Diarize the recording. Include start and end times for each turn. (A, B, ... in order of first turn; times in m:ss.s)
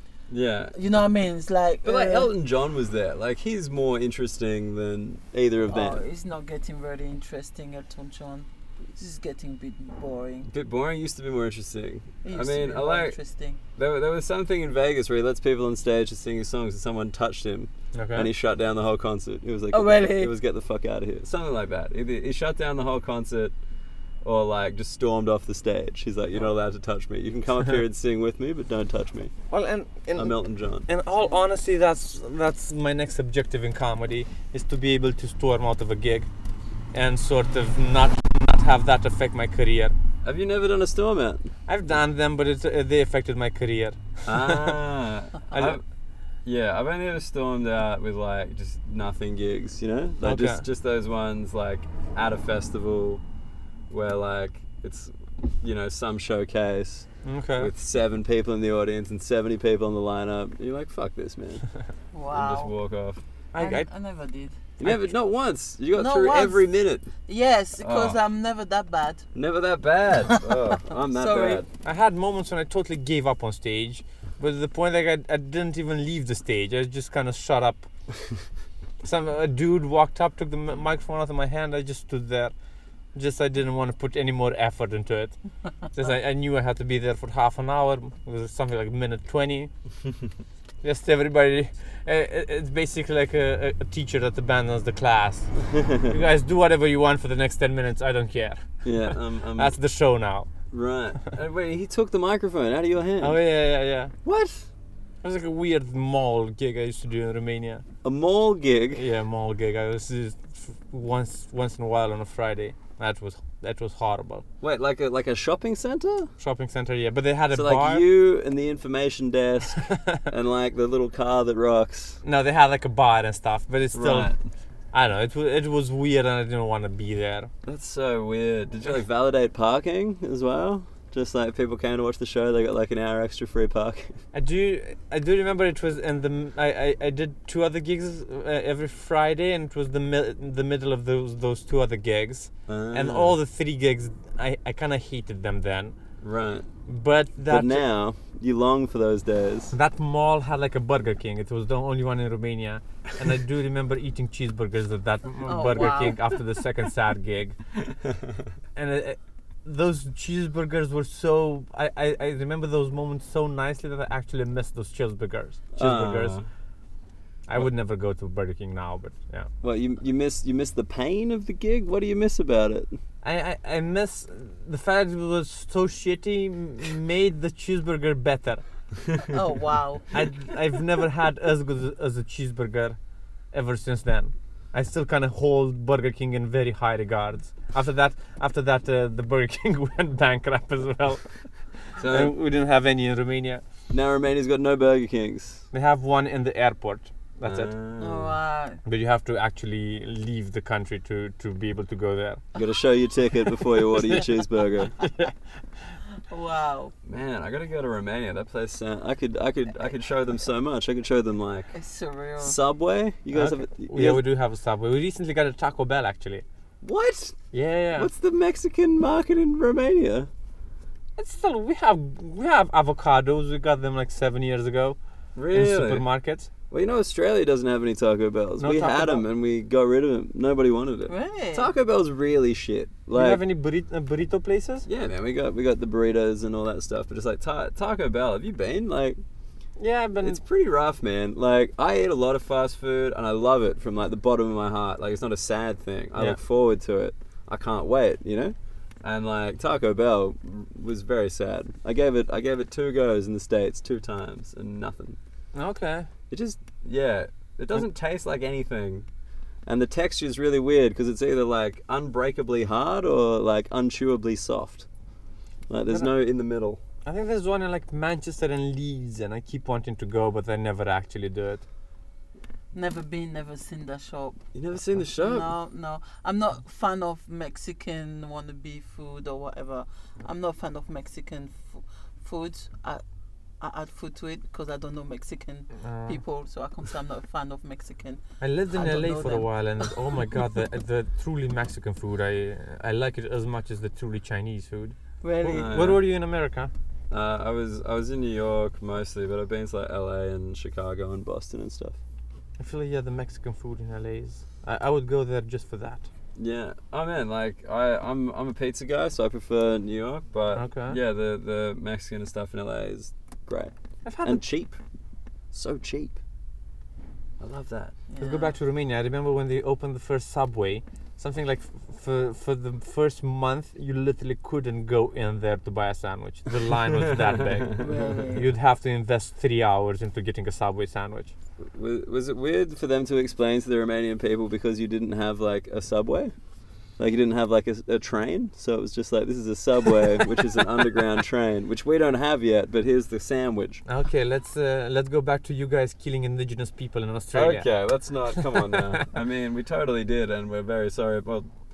0:00.3-0:00.7 A
0:00.7-0:02.3 B
0:01.8-0:06.0 A
0:05.7-0:10.5 B
0:10.5-0:13.2 A
0:12.2-0:13.6 B
0:13.8-0:23.5 A
0:17.9-0:18.3 C
0:19.7-0:20.3 B
0:24.2-0:29.3 A
0:29.5-0:36.3 C
0:30.2-0:30.9 A
0:36.9-0:40.0 C
0:40.2-0:41.5 A
0:41.7-0:44.8 C
0:44.2-0:45.8 A
0:45.5-0:45.8 C
0:46.4-0:53.2 A
0:50.2-0:50.6 C
0:53.9-1:01.6 A
0:57.2-0:57.7 C
1:02.1-1:02.7 B
1:02.3-1:03.2 A
1:03.5-1:03.9 C
1:03.6-1:04.6 B
1:04.8-1:07.1 A
1:05.9-1:06.6 B
1:07.2-1:09.2 B
1:07.8-1:08.2 A
1:09.3-1:11.7 A
1:10.3-1:11.6 B
1:11.8-1:17.9 C
1:19.0-1:22.5 C
1:23.1-1:25.4 C
1:25.9-1:29.7 C
1:30.8-1:40.5 C
1:35.6-1:36.1 A
1:38.8-1:39.8 A
1:40.7-1:43.4 A
1:43.2-1:44.1 C
1:44.2-1:44.7 A
1:45.2-1:47.8 C
1:48.0-1:49.0 A
1:49.0-1:54.5 C
1:54.6-1:56.3 A
1:56.4-1:58.0 C
1:57.5-2:02.2 A
1:59.9-2:00.2 C
2:02.2-2:04.3 C
2:03.9-2:04.4 A
2:04.9-2:07.5 C
2:07.6-2:14.2 A
2:14.3-2:26.0 C
2:22.7-2:23.4 A
2:26.2-2:26.7 A
2:26.9-2:27.8 C
2:27.5-2:29.8 A
2:29.7-2:37.6 C
2:35.4-2:36.3 B
2:38.8-2:46.4 C
2:45.8-2:46.5 A
2:47.5-2:49.5 C
2:49.6-2:52.9 A
2:53.2-2:58.6 C
2:59.3-3:00.1 B
3:00.1-3:03.0 C
3:03.5-3:11.3 C
3:12.0-3:12.3 A
3:12.0-3:13.6 C
3:13.9-3:15.6 A
3:15.7-3:17.7 C
3:17.4-3:18.4 A
3:18.0-3:18.8 B
3:18.8-3:22.4 C
3:22.5-3:24.9 A
3:25.0-3:25.3 C
3:26.3-3:26.9 B
3:27.0-3:31.7 A
3:31.7-3:32.6 B
3:32.4-3:34.2 A
3:33.3-3:36.4 C
3:36.8-3:37.4 A
3:37.5-3:38.1 C
3:38.0-3:40.3 A
3:41.2-3:45.0 C
3:45.3-3:46.0 A
3:45.5-3:46.5 C
3:46.7-3:53.4 A
3:48.6-3:49.2 C
3:51.1-3:51.7 B
3:53.1-3:54.9 C
3:54.8-3:59.2 A
3:59.8-4:00.4 C
4:00.2-4:15.2 A
4:15.5-4:16.1 C
4:16.3-4:19.0 A
4:19.7-4:24.8 A
4:25.7-4:26.8 A
4:27.0-4:31.6 C
4:32.7-4:34.4 B
4:34.5-4:35.5 A
4:35.2-4:43.0 B
4:43.6-4:49.9 B
4:45.8-4:46.2 C
4:48.4-4:56.7 C
4:55.2-4:55.8 B
4:55.5-4:56.0 A
4:57.1-5:02.0 A
5:02.6-5:06.1 C
5:06.4-5:14.8 A
5:10.5-5:11.0 C
5:14.0-5:14.4 C
5:15.5-5:16.2 A
5:17.4-5:17.9 A
5:18.1-5:18.5 B
5:18.2-5:31.3 C
5:26.9-5:28.1 A
5:27.8-5:28.4 B
5:31.6-5:36.3 A
5:37.0-5:43.8 A
5:43.8-5:47.7 C
5:47.3-5:51.5 A
5:48.3-5:49.0 C